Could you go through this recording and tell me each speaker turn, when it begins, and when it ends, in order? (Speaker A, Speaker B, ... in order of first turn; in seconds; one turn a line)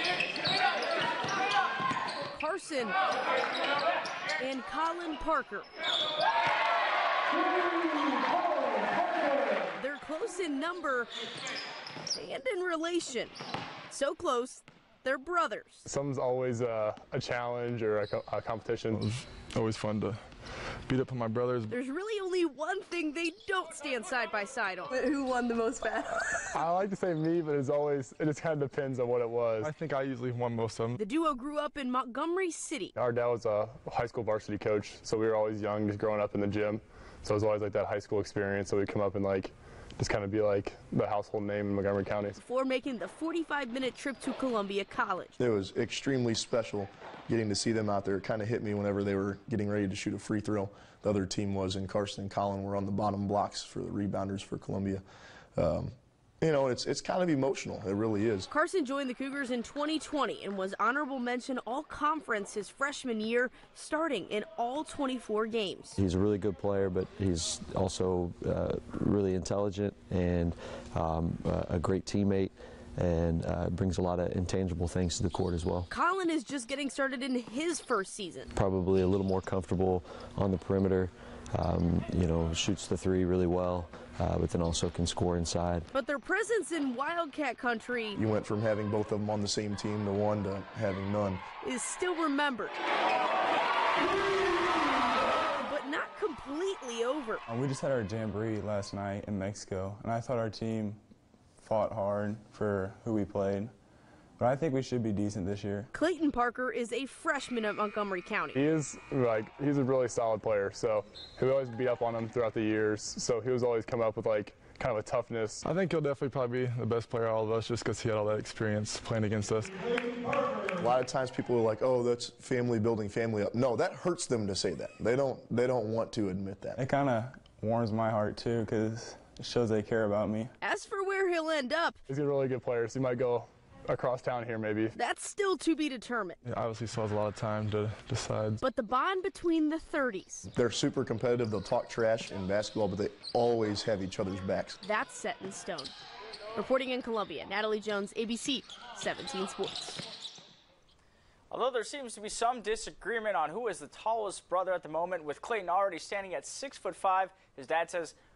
Speaker A: 2.3-2.9
Speaker A: 4.4-5.7
Speaker A: 9.8-11.1
Speaker A: 12.1-13.3
Speaker A: 13.9-14.6
Speaker A: 15.2-15.8
Speaker B: 15.8-20.2
Speaker C: 19.6-20.1
Speaker B: 20.9-21.7
Speaker C: 21.0-21.4
Speaker A: 21.7-26.7
Speaker B: 26.5-30.6
Speaker C: 29.6-31.0
Speaker A: 31.0-32.9
Speaker B: 32.9-42.4
Speaker A: 42.4-45.4
Speaker D: 45.4-55.0
Speaker D: 55.5-58.5
Speaker A: 58.5-66.0
Speaker E: 66.0-75.9
Speaker A: 75.9-78.5
Speaker E: 78.5-85.9
Speaker A: 85.9-88.2
Speaker D: 88.2-91.4
Speaker A: 91.6-92.8
Speaker A: 95.6-97.4
Speaker F: 97.5-101.0
Speaker F: 101.6-103.7
Speaker F: 104.4-105.9
Speaker A: 106.0-108.5
Speaker B: 108.6-115.6
Speaker C: 115.6-119.6
Speaker B: 118.4-120.1
Speaker D: 120.8-126.8
Speaker F: 126.8-130.5
Speaker A: 130.6-131.9
Speaker B: 132.1-134.9
Speaker A: 135.0-136.3
Speaker B: 136.4-138.6
Speaker A: 138.6-140.5
Speaker D: 140.5-144.8
Speaker A: 144.8-145.9
Speaker A: 146.6-150.0
Speaker G: 151.5-158.2